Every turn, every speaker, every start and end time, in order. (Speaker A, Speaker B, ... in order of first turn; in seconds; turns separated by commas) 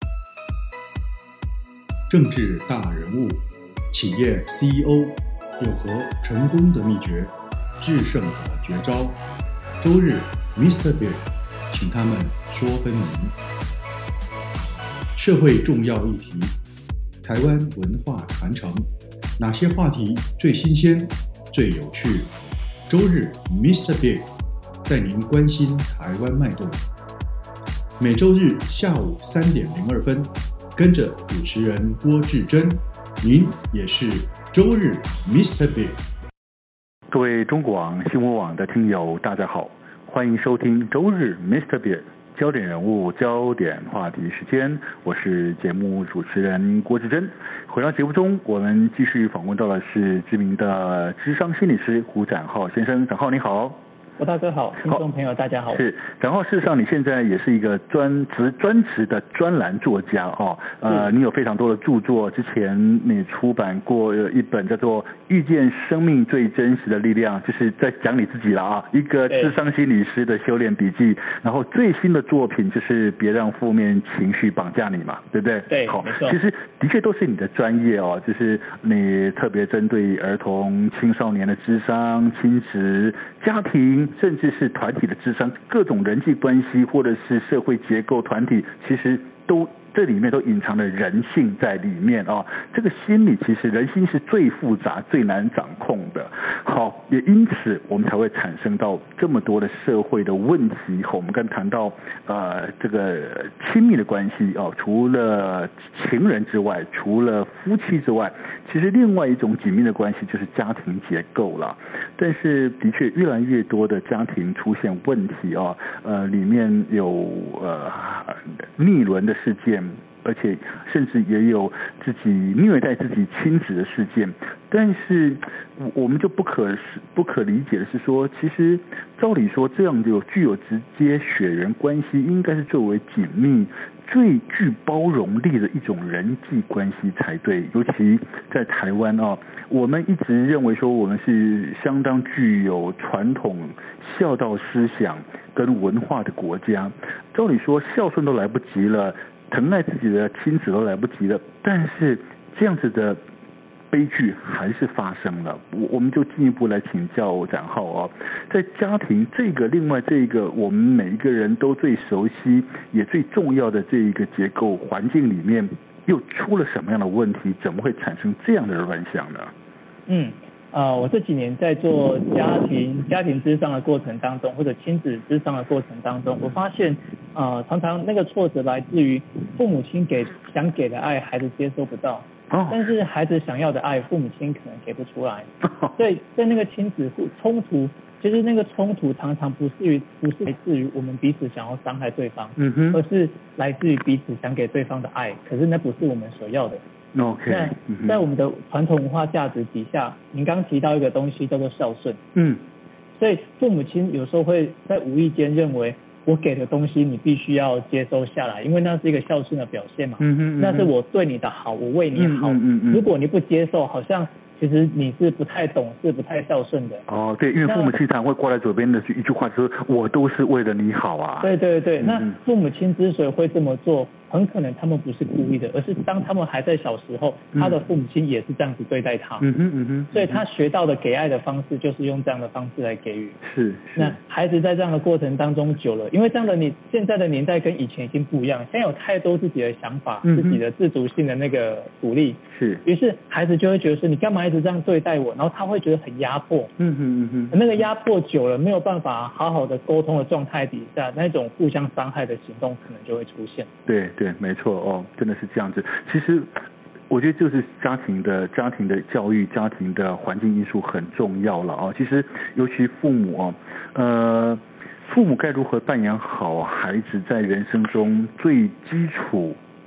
Speaker A: 2.1-9.2, Speaker A: 9.8-13.4, Speaker A: 15.2-16.6, Speaker A: 17.2-22.3, Speaker A: 22.9-24.3, Speaker A: 24.9-26.9, Speaker A: 28.0-36.0, Speaker B: 37.1-53.8, Speaker C: 54.2-55.8, Speaker B: 55.7-153.2, Speaker C: 69.3-69.6, Speaker C: 75.7-76.4, Speaker B: 153.9-169.5, Speaker C: 170.1-196.8, Speaker B: 182.5-182.8, Speaker B: 185.6-185.9, Speaker B: 192.6-193.0, Speaker B: 197.2-198.2, Speaker C: 197.5-202.2, Speaker B: 202.3-202.6, Speaker C: 203.2-217.1, Speaker B: 210.2-210.9, Speaker B: 212.2-213.1, Speaker B: 217.1-222.4, Speaker C: 217.6-217.9, Speaker C: 221.4-229.5, Speaker B: 227.6-227.8, Speaker B: 229.4-230.4, Speaker C: 230.1-233.4, Speaker B: 233.4-234.2, Speaker C: 234.0-246.7, Speaker B: 240.2-240.6, Speaker B: 242.5-242.8, Speaker B: 246.8-247.7, Speaker C: 247.5-253.7, Speaker B: 253.9-256.5, Speaker B: 257.1-269.6